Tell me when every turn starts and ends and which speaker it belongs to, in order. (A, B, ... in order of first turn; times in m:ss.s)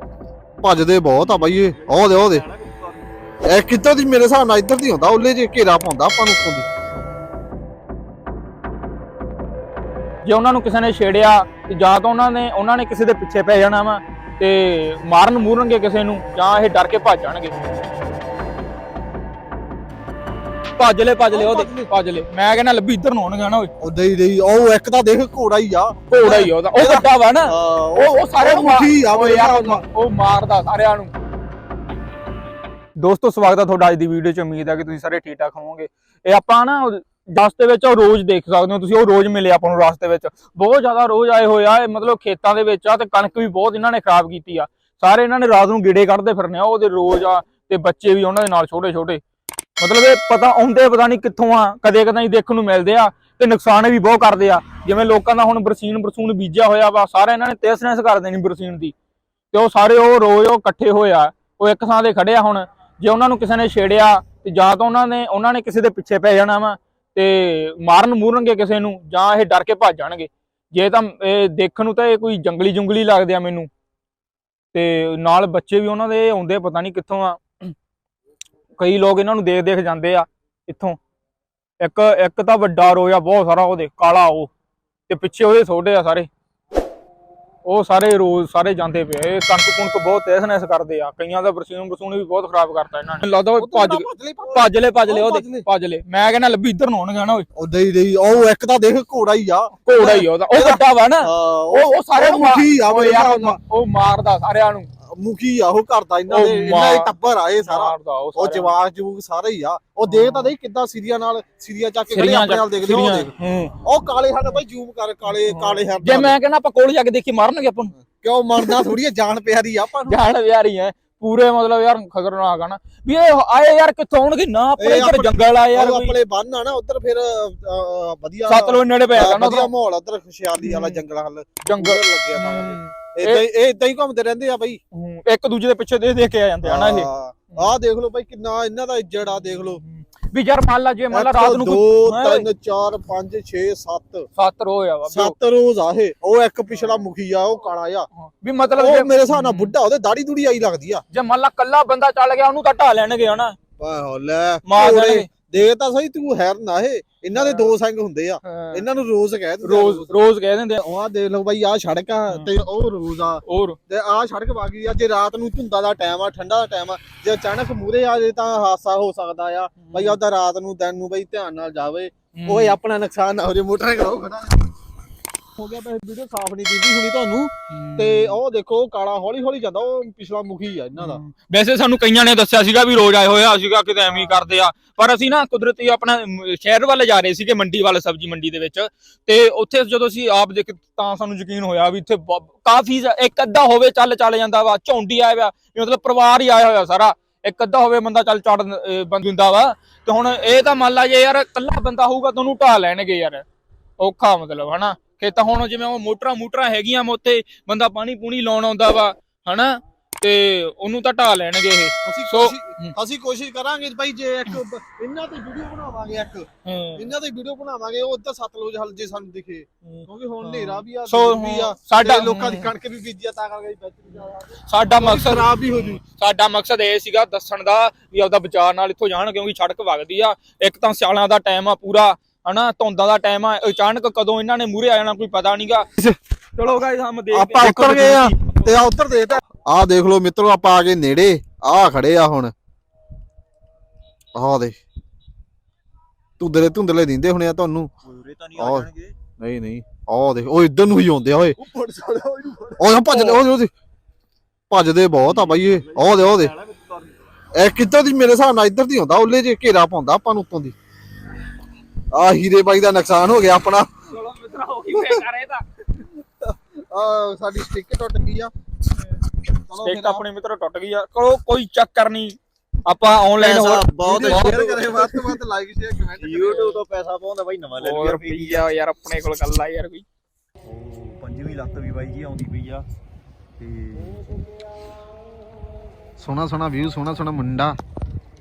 0:00.6-0:02.5 A
0:01.2-0:03.1 B
0:03.5-0:06.7 A
0:10.2-0:17.6 C
0:20.8-0:23.7 C
0:21.3-0:21.9 A
0:23.8-0:29.8 A
0:26.1-0:31.1 C
0:33.0-0:49.2 C
0:49.8-0:58.9 C
0:59.5-1:13.7 C
1:14.7-1:17.7 C
1:18.8-1:21.0 C
1:21.8-1:24.5 C
1:25.1-1:26.3 C
1:27.6-1:37.5 C
1:33.6-1:35.7 A
1:37.6-1:43.6 A
1:39.8-1:44.9 C
1:45.0-1:53.3 A
1:46.3-1:47.1 C
1:47.6-1:48.7 C
1:50.1-1:50.5 C
1:52.1-1:53.8 C
1:53.8-1:56.4 A
1:55.3-1:57.9 C
1:58.0-2:00.2 A
1:58.6-1:58.8 C
2:00.1-2:06.2 C
2:04.8-2:14.8 A
2:08.5-2:09.7 C
2:10.6-2:11.0 C
2:11.6-2:13.4 C
2:14.9-2:17.8 C
2:16.6-2:19.8 A
2:19.2-2:22.5 C
2:21.1-2:24.3 A
2:24.4-2:25.4 C
2:25.1-2:28.1 A
2:28.2-2:29.8 C
2:28.7-2:31.0 A
2:31.1-2:33.6 C
2:33.8-2:40.1 A
2:34.7-2:35.3 C
2:37.4-2:37.7 C
2:38.4-2:38.8 C
2:39.6-2:40.8 C
2:40.8-2:54.7 A
2:43.5-2:43.8 C
2:49.8-2:50.2 C
2:52.3-2:52.8 C
2:55.6-3:01.2 A
2:57.7-2:58.4 C
3:01.0-3:23.4 C
3:24.0-3:33.0 C
3:32.0-3:46.0 A
3:36.6-3:37.1 C
3:39.8-3:42.7 C
3:44.7-3:55.9 C
3:56.6-3:58.8 C
3:57.3-4:02.5 A
4:04.4-4:04.8 A
4:06.4-4:07.9 A
4:08.0-4:09.2 B
4:08.6-4:11.6 A
4:11.6-4:13.0 B
4:12.8-4:13.7 A
4:13.1-4:13.4 C
4:14.7-4:16.5 A
4:15.3-4:17.2 B
4:17.6-4:20.8 A
4:22.1-4:23.9 A
4:24.1-4:25.7 C
4:24.9-4:25.2 A
4:26.4-4:28.5 A
4:29.6-4:30.2 A
4:29.8-4:34.6 C
4:33.4-4:35.4 B
4:34.0-4:36.8 A
4:36.2-4:38.7 B
4:37.8-4:40.0 C
4:40.6-4:42.8 B
4:43.6-4:44.2 B
4:46.2-4:47.8 A